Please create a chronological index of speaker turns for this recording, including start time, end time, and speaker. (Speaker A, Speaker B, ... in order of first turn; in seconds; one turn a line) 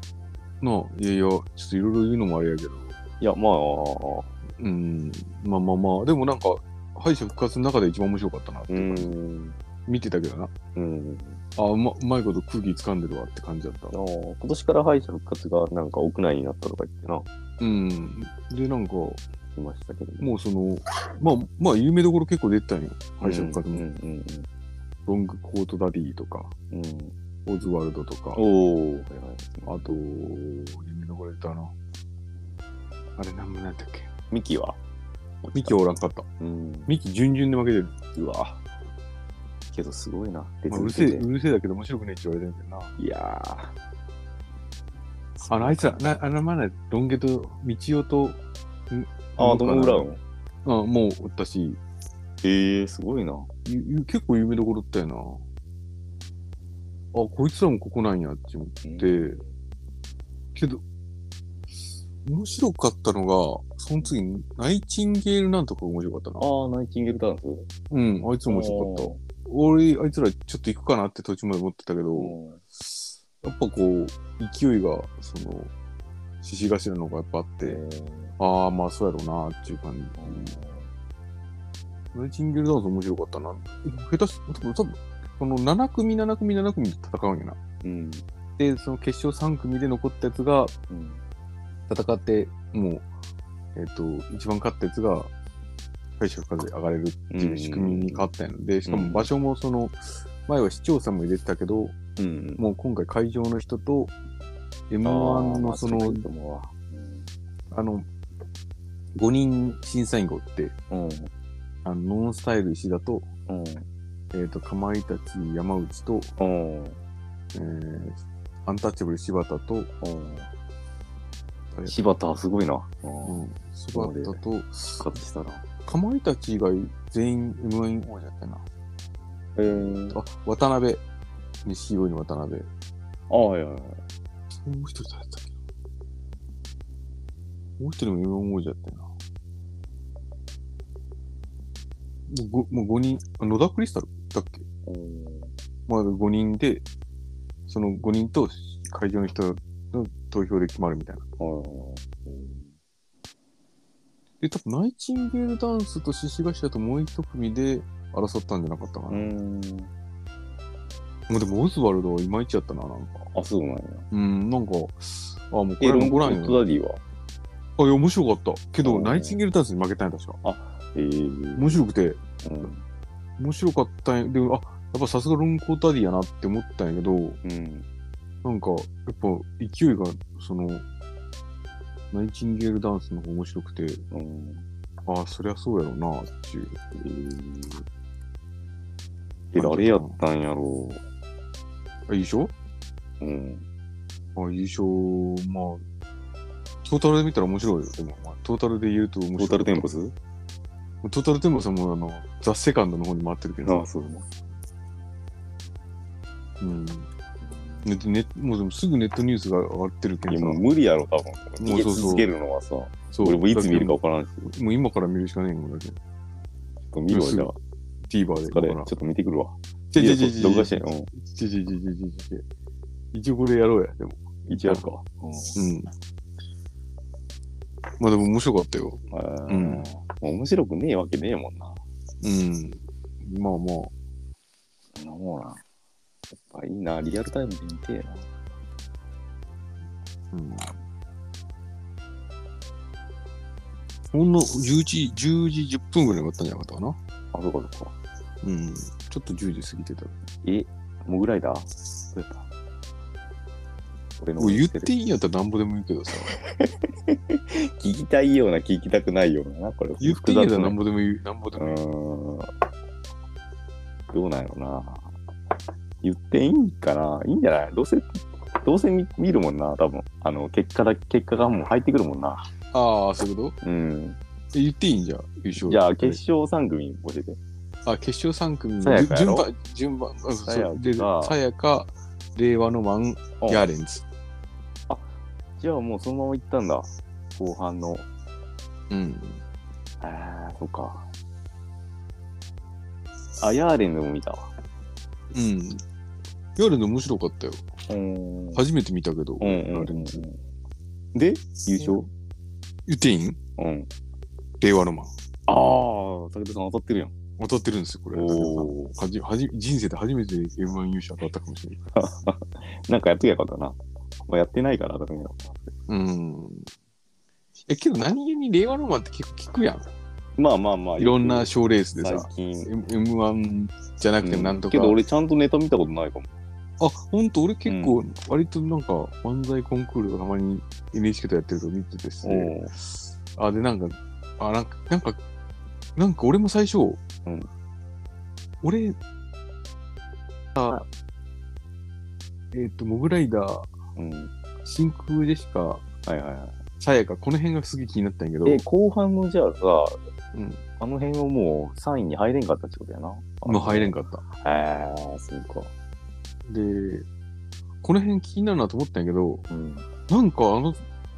Speaker A: 0.6-2.9
Speaker B: 3.2-4.3
Speaker A: 4.6-9.1
Speaker B: 8.7-9.6
Speaker A: 9.8-10.5
Speaker B: 10.7-11.4
Speaker A: 11.6-13.9
Speaker B: 13.9-17.3
Speaker A: 17.6-19.2
Speaker B: 19.5-20.3
Speaker A: 20.2-23.8
Speaker B: 23.2-24.5
Speaker A: 25.1-26.5
Speaker B: 26.7-27.1
Speaker A: 27.4-28.4
Speaker B: 28.3-29.8
Speaker A: 29.6-31.7
Speaker A: 33.2-34.1
Speaker B: 34.3-34.8
Speaker A: 35.4-36.3
Speaker B: 36.4-36.9
Speaker A: 36.9-37.9
Speaker B: 38.1-38.6
Speaker B: 39.7-41.2
Speaker A: 40.7-43.0
Speaker B: 43.0-43.7
Speaker B: 45.4-46.2
Speaker A: 45.5-48.4
Speaker A: 48.9-50.1
Speaker B: 49.4-50.2
Speaker A: 50.6-51.8
Speaker B: 52.4-53.5
Speaker A: 53.6-55.4
Speaker A: 57.1-59.4
Speaker B: 58.8-59.5
Speaker A: 60.5-60.8
Speaker A: 62.2-66.5
Speaker B: 66.4-67.7
Speaker A: 67.9-72.3
Speaker B: 68.5-69.2
Speaker B: 72.1-72.6
Speaker A: 73.4-75.7
Speaker A: 76.4-77.8
Speaker B: 77.6-78.3
Speaker A: 78.4-80.5
Speaker B: 80.2-80.9
Speaker A: 82.1-87.6
Speaker B: 87.8-88.2
Speaker A: 88.6-90.7
Speaker B: 90.9-91.2
Speaker A: 91.9-93.0
Speaker A: 93.7-95.3
Speaker A: 96.2-102.0
Speaker B: 97.3-98.3
Speaker B: 98.8-99.3
Speaker B: 102.2-102.6
Speaker A: 102.6-104.1
Speaker A: 104.9-106.2
Speaker B: 105.0-107.3
Speaker A: 107.7-108.1
Speaker A: 109.2-110.7
Speaker B: 110.9-111.3
Speaker A: 111.8-113.3
Speaker B: 113.5-113.9
Speaker A: 114.3-116.3
Speaker B: 116.4-117.0
Speaker A: 117.5-119.9
Speaker B: 120.0-120.5
Speaker A: 121.7-122.0
Speaker B: 121.9-123.4
Speaker A: 123.2-125.0
Speaker B: 123.9-124.4
Speaker B: 125.0-125.6
Speaker A: 125.8-128.6
Speaker B: 129.6-130.2
Speaker A: 130.0-131.0
Speaker A: 131.6-132.7
Speaker B: 133.3-134.0
Speaker A: 134.5-135.5
Speaker A: 137.8-139.1
Speaker A: 142.3-144.6
Speaker B: 144.8-145.5
Speaker A: 145.9-146.8
Speaker A: 147.7-151.2
Speaker B: 151.4-152.7
Speaker A: 154.4-159.3
Speaker B: 159.1-159.9
Speaker A: 161.3-163.3
Speaker B: 163.3-164.1
Speaker A: 164.1-166.6
Speaker B: 165.8-167.0
Speaker A: 167.8-170.4
Speaker B: 168.8-169.4
Speaker B: 170.4-171.8
Speaker A: 171.6-172.2
Speaker B: 172.4-172.8
Speaker A: 173.4-177.4
Speaker B: 177.4-177.8
Speaker A: 178.4-180.8
Speaker A: 182.1-184.0
Speaker B: 184.1-184.6
Speaker A: 185.0-186.8
Speaker B: 186.9-187.8
Speaker B: 189.5-191.0
Speaker A: 189.5-190.2
Speaker A: 192.1-192.5
Speaker B: 193.2-193.7
Speaker A: 194.3-195.8
Speaker A: 196.8-199.8
Speaker B: 199.4-200.1
Speaker A: 201.0-203.9
Speaker B: 203.6-204.2
Speaker A: 206.6-207.1
Speaker B: 207.4-207.9
Speaker A: 207.8-210.6
Speaker B: 210.3-214.4
Speaker A: 211.6-212.3
Speaker A: 213.1-215.9
Speaker B: 216.9-217.6
Speaker A: 217.1-217.5
Speaker A: 218.1-218.9
Speaker B: 218.5-221.1
Speaker A: 219.9-222.4
Speaker A: 223.1-224.8
Speaker B: 224.5-225.6
Speaker A: 225.5-225.9
Speaker A: 228.0-229.9
Speaker B: 229.1-231.8
Speaker A: 232.2-233.9
Speaker B: 234.9-235.6
Speaker B: 236.3-238.3
Speaker A: 240.3-240.7
Speaker A: 244.1-247.0
Speaker B: 247.3-247.9
Speaker A: 248.4-250.1
Speaker B: 250.4-252.4
Speaker B: 254.2-254.9
Speaker A: 254.4-256.4
Speaker B: 256.4-260.8
Speaker A: 260.0-261.9
Speaker B: 261.6-262.5
Speaker B: 264.1-265.1
Speaker B: 266.0-272.5
Speaker A: 272.7-273.6
Speaker B: 273.6-274.2
Speaker A: 274.5-276.2
Speaker B: 275.6-277.4
Speaker A: 277.8-284.0
Speaker B: 278.8-279.5
Speaker B: 280.4-281.4
Speaker B: 283.4-283.7
Speaker B: 284.9-288.1
Speaker A: 288.9-289.4
Speaker B: 290.0-291.1
Speaker B: 293.4-294.5
Speaker A: 295.3-295.8
Speaker A: 296.6-297.6
Speaker B: 297.9-298.6
Speaker A: 298.5-300.2
Speaker B: 299.4-300.4
Speaker B: 301.1-302.1
Speaker A: 302.9-303.4
Speaker B: 303.6-303.9
Speaker A: 304.6-305.1
Speaker B: 305.5-307.1
Speaker A: 307.4-311.8
Speaker B: 308.1-308.9
Speaker B: 311.9-315.5
Speaker A: 315.9-316.7
Speaker A: 317.7-319.9
Speaker B: 320.4-322.7
Speaker A: 321.0-325.0
Speaker B: 324.2-326.3
Speaker A: 326.8-332.5
Speaker B: 327.6-328.0
Speaker B: 332.2-332.7
Speaker A: 333.3-335.2
Speaker A: 335.9-337.0
Speaker A: 338.6-338.9
Speaker A: 342.5-343.7
Speaker B: 343.9-344.3
Speaker A: 344.6-345.8
Speaker B: 346.1-346.6
Speaker A: 346.8-348.6
Speaker B: 348.4-350.0
Speaker A: 350.3-350.6
Speaker B: 350.8-355.7
Speaker A: 353.4-354.2
Speaker A: 356.4-357.1
Speaker A: 357.8-359.4
Speaker B: 359.5-359.9
Speaker A: 360.1-360.8